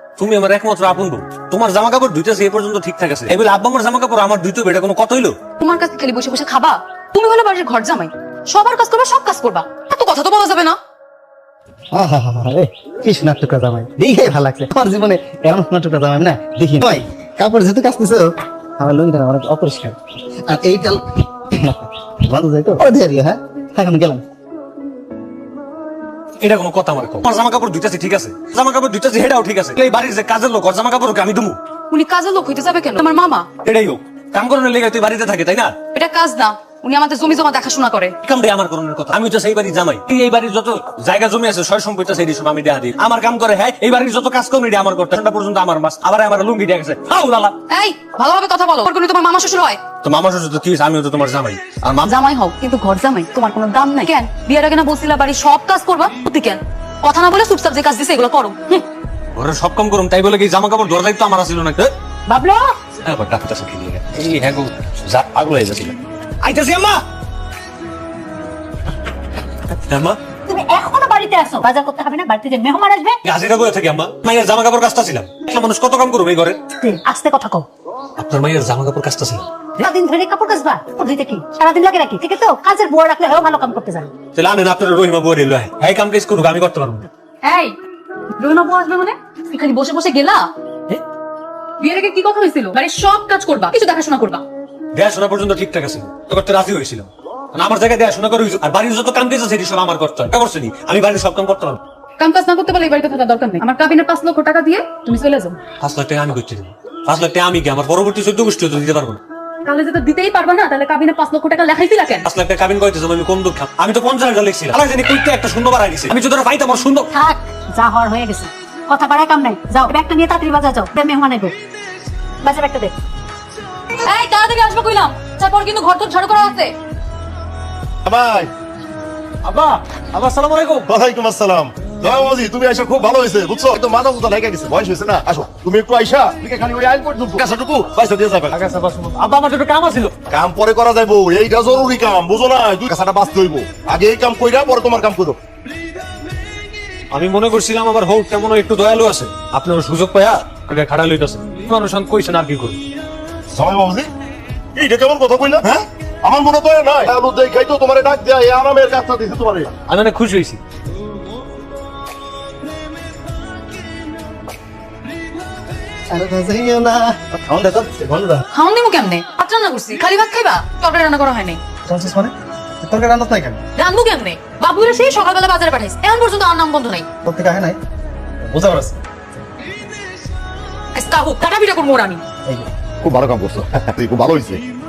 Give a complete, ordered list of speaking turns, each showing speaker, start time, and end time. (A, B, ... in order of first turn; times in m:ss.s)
0:00.2-0:05.3 A
0:05.6-0:10.8 B
0:11.9-0:24.2 C
0:26.4-0:31.6 A
0:31.9-0:33.5 B
0:33.6-0:35.8 A
0:35.9-0:38.1 B
0:38.2-0:47.6 A
0:47.7-0:49.8 B
0:50.0-0:52.1 A
0:52.0-0:58.8 B
0:59.3-1:01.9 A
1:02.3-1:02.7 D
1:03.0-1:07.0 A
1:09.9-1:10.2 A
1:10.5-1:13.2 D
1:13.2-1:16.7 A
1:16.8-1:17.6 D
1:18.2-1:19.5 A
1:19.8-1:24.1 D
1:24.3-1:27.1 A
1:27.4-1:27.8 B
1:28.4-1:30.5 B
1:31.8-1:34.4 B
1:34.9-1:41.8 A
1:42.2-1:45.6 B
1:45.8-1:49.2 A
1:49.6-1:52.2 B
1:52.2-1:57.1 A
1:57.1-2:01.5 D
2:02.4-2:02.9 D
2:04.0-2:06.7 B
2:08.0-2:08.5 E
2:09.4-2:10.9 A
2:10.9-2:18.6 E
2:18.5-2:20.1 A
2:20.3-2:25.4 E
2:27.1-2:32.8 A
2:33.5-2:34.1 E
2:34.7-2:39.7 E
2:39.9-2:40.6 A
2:46.1-2:48.4 C
2:48.5-2:51.6 B
2:51.8-2:53.6 C
2:53.8-2:57.1 B
2:57.2-2:57.8 C
2:58.4-2:59.0 C
3:00.9-3:02.2 B
3:03.0-3:04.6 E